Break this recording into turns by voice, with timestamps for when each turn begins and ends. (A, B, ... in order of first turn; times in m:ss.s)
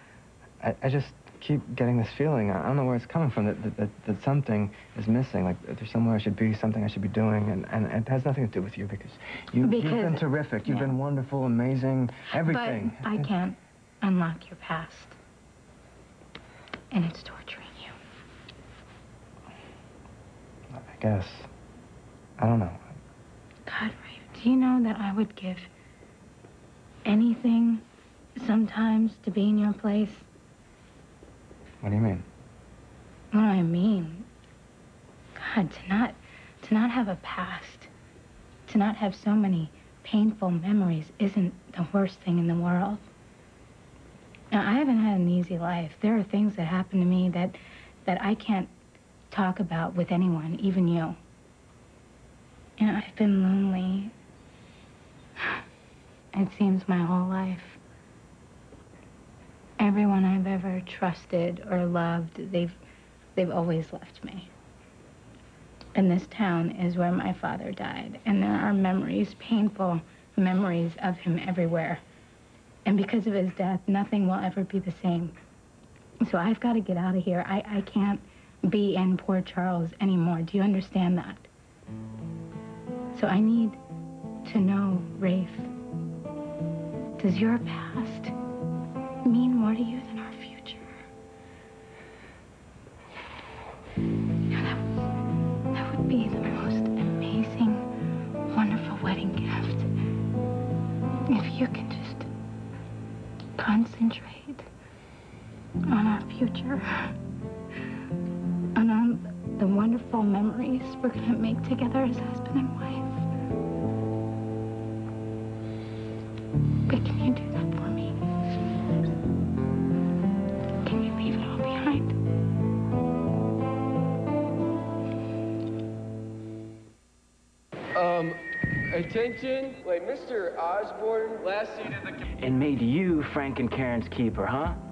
0:00.6-0:13.2 A
0:09.6-0:10.9 B
0:12.4-0:15.2 B
0:16.9-0:17.9 B
0:20.7-0:21.5 A
0:22.4-0:22.9 A
0:23.7-0:25.7 B
0:27.1-0:27.8 B
0:28.4-0:30.3 B
0:31.8-0:32.3 A
0:33.3-0:34.3 B
0:35.4-0:37.9 B
0:38.7-0:43.1 B
0:44.5-0:48.7 B
0:49.3-0:51.2 B
0:52.8-0:54.1 B
0:56.3-0:57.8 B
0:59.8-1:02.8 B
1:03.4-1:04.5 B
1:06.0-1:12.0 B
1:12.9-1:15.4 B
1:16.2-1:21.5 B
1:23.1-1:23.8 B
1:24.4-1:25.7 B
1:27.2-1:28.3 B
1:29.2-1:30.9 B
1:34.5-1:34.8 B
1:35.7-1:37.9 B
1:38.5-1:39.9 B
1:41.3-1:42.3 B
1:43.6-1:44.7 B
1:45.9-1:47.1 B
1:48.8-1:53.3 B
1:56.9-1:58.2 B
2:00.8-2:02.2 B
2:08.0-2:08.4 C
2:08.9-2:12.2 C
2:12.4-2:14.8 D